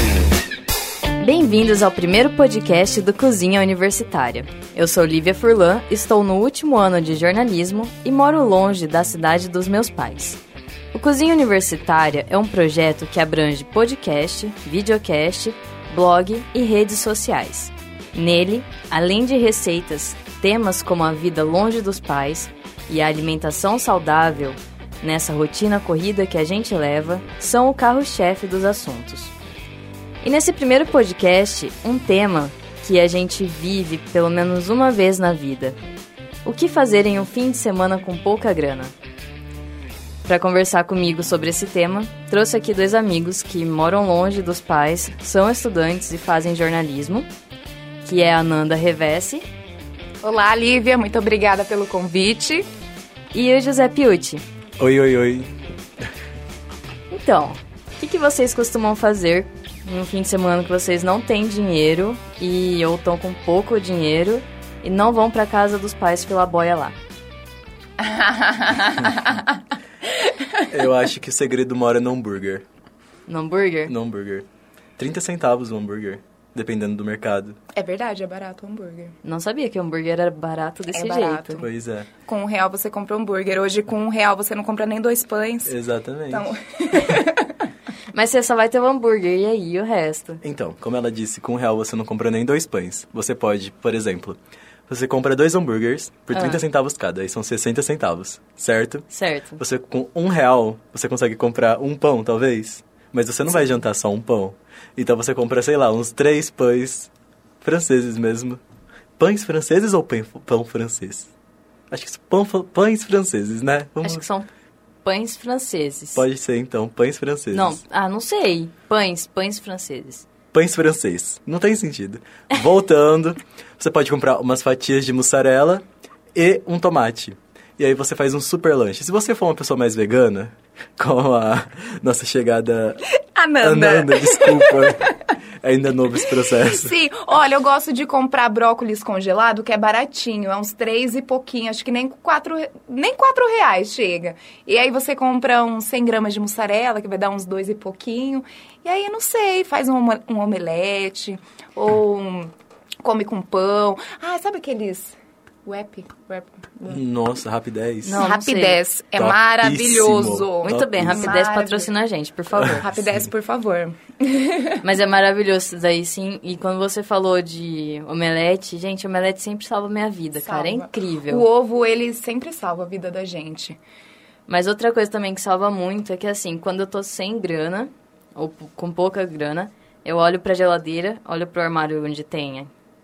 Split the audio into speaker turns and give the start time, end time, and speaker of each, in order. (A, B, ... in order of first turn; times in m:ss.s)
0:01.2-0:10.4 A
0:10.9-0:29.3 A
0:30.2-0:35.8 A
0:36.4-0:38.9 A
0:40.2-0:47.3 A
0:48.0-0:49.5 A
0:50.2-0:52.7 B
0:53.3-0:54.4 A
0:54.8-0:55.6 C
0:57.1-1:07.0 A
1:08.0-1:09.6 B
1:10.2-1:10.6 B
1:10.7-1:12.6 C
1:13.3-1:13.9 A
1:13.9-1:14.5 C
1:15.0-1:17.6 C
1:17.8-1:19.2 B
1:19.2-1:21.6 A
1:20.9-1:21.7 B
1:21.6-1:22.1 C
1:22.3-1:25.8 B
1:25.6-1:26.5 C
1:26.3-1:27.6 B
1:28.1-1:30.4 A
1:30.4-1:47.1 C
1:36.3-1:36.6 A
1:39.1-1:39.6 A
1:47.6-1:48.6 C
1:49.2-1:51.3 C
1:51.9-1:54.3 C
1:54.0-1:54.5 A
1:55.0-1:56.2 A
1:56.2-1:57.8 C
1:57.5-2:00.3 A
2:00.5-2:13.0 C
2:13.4-2:15.1 B
2:13.6-2:17.0 C
2:16.5-2:35.2 B
2:35.7-2:37.0 B
2:36.9-2:38.3 C
2:38.0-2:38.8 A
2:38.2-2:42.0 B
2:39.2-2:41.3 C
2:40.6-2:42.9 A
2:42.6-2:43.3 C
2:42.8-2:44.8 B
2:44.8-2:51.4 A
2:50.4-2:53.8 B
2:54.5-3:02.7 A